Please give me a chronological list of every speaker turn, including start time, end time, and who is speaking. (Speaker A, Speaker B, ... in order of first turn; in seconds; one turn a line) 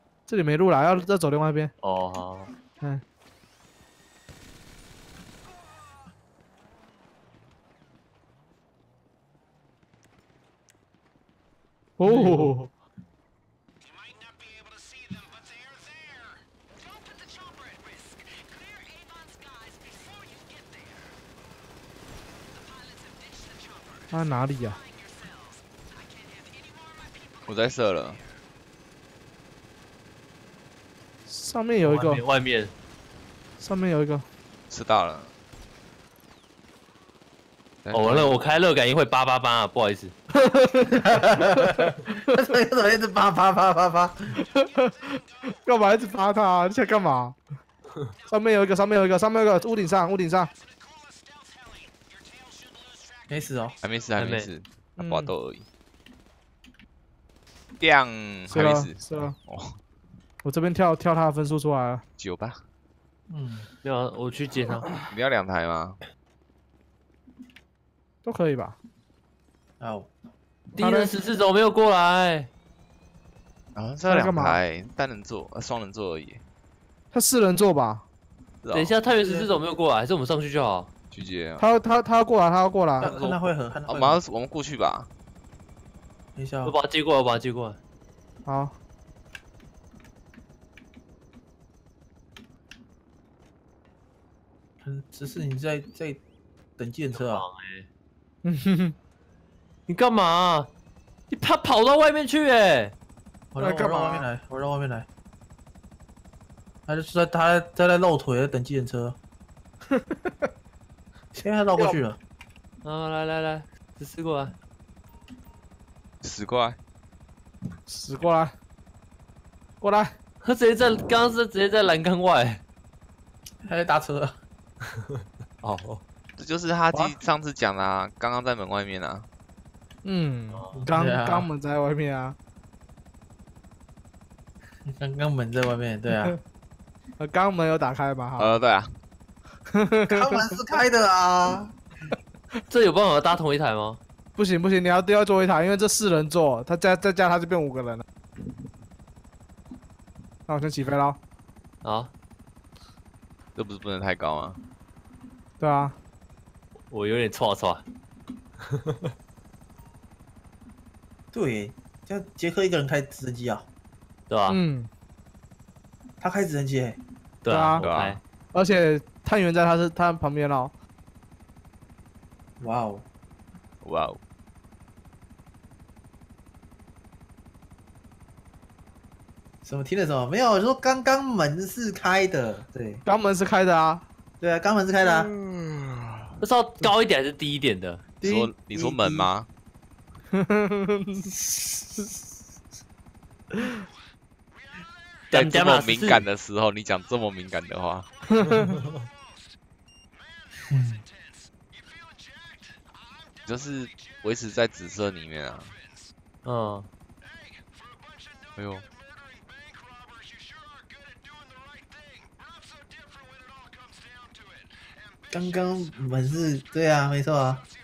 Speaker A: 0.3-1.7
Speaker B: 1.8-2.5
Speaker A: 12.0-12.7
Speaker B: 12.1-12.5
Speaker A: 24.1-24.9
Speaker C: 27.4-28.2
Speaker A: 31.3-32.2
Speaker B: 31.8-32.7
Speaker A: 33.6-34.2
Speaker C: 34.7-35.3
Speaker C: 37.8-38.4
Speaker B: 37.9-40.1
Speaker A: 40.4-41.1
Speaker D: 41.0-44.4
Speaker A: 44.5-47.4
Speaker A: 48.3-50.5
Speaker D: 53.3-53.8
Speaker C: 53.8-55.7
Speaker B: 54.2-54.5
Speaker A: 55.0-55.3
Speaker C: 57.8-59.8
Speaker A: 58.5-59.4
Speaker A: 60.4-62.0
Speaker C: 62.2-62.6
Speaker D: 63.3-63.7
Speaker B: 63.8-64.9
Speaker C: 65.0-66.0
Speaker A: 68.2-68.8
Speaker D: 69.8-70.1
Speaker B: 70.7-72.5
Speaker A: 70.8-71.2
Speaker C: 73.8-76.4
Speaker A: 74.1-74.6
Speaker A: 77.1-78.0
Speaker C: 78.6-79.0
Speaker B: 78.7-80.9
Speaker D: 79.2-79.5
Speaker C: 81.1-81.7
Speaker A: 81.6-83.1
Speaker D: 83.0-84.2
Speaker C: 83.0-85.1
Speaker D: 86.4-86.8
Speaker B: 86.6-87.8
Speaker A: 88.5-88.8
Speaker D: 94.8-96.2
Speaker D: 96.8-97.5
Speaker B: 97.1-97.9
Speaker A: 98.4-99.0
Speaker B: 99.9-100.7
Speaker B: 101.3-103.0
Speaker D: 103.5-105.1
Speaker A: 103.6-104.3
Speaker D: 106.9-109.2
Speaker A: 109.9-110.4
Speaker D: 111.3-112.2
Speaker B: 112.8-114.6
Speaker C: 116.2-116.8
Speaker A: 117.9-118.5
Speaker A: 119.8-120.2
Speaker B: 120.4-122.6
Speaker D: 123.7-124.4
Speaker B: 125.6-126.0
Speaker C: 126.4-129.3
Speaker A: 130.0-132.4
Speaker B: 130.5-130.8
Speaker D: 130.8-131.5
Speaker D: 134.9-136.4
Speaker A: 137.2-138.6
Speaker C: 138.4-139.0
Speaker A: 139.7-140.6
Speaker D: 140.1-141.8
Speaker B: 142.7-144.0
Speaker A: 144.3-148.1
Speaker A: 150.5-151.2
Speaker B: 151.8-152.1
Speaker C: 153.6-154.6
Speaker A: 155.6-156.0
Speaker B: 156.9-157.8
Speaker D: 161.3-163.7
Speaker B: 164.3-164.6
Speaker A: 164.5-164.9
Speaker D: 166.2-167.0
Speaker B: 167.4-168.2
Speaker A: 167.5-167.9
Speaker C: 167.8-168.2
Speaker A: 168.5-170.7
Speaker D: 172.6-173.1
Speaker C: 173.8-174.2
Speaker D: 179.6-183.0
Speaker A: 183.1-184.0
Speaker D: 184.4-185.3
Speaker C: 185.0-186.3
Speaker B: 186.4-188.1
Speaker C: 188.2-189.5
Speaker A: 188.2-189.3
Speaker A: 190.3-192.0
Speaker B: 195.3-196.3
Speaker C: 195.3-198.1
Speaker A: 198.4-198.7
Speaker D: 200.7-201.1
Speaker C: 203.4-205.8
Speaker B: 206.4-206.9
Speaker C: 208.6-208.9
Speaker D: 215.3-217.7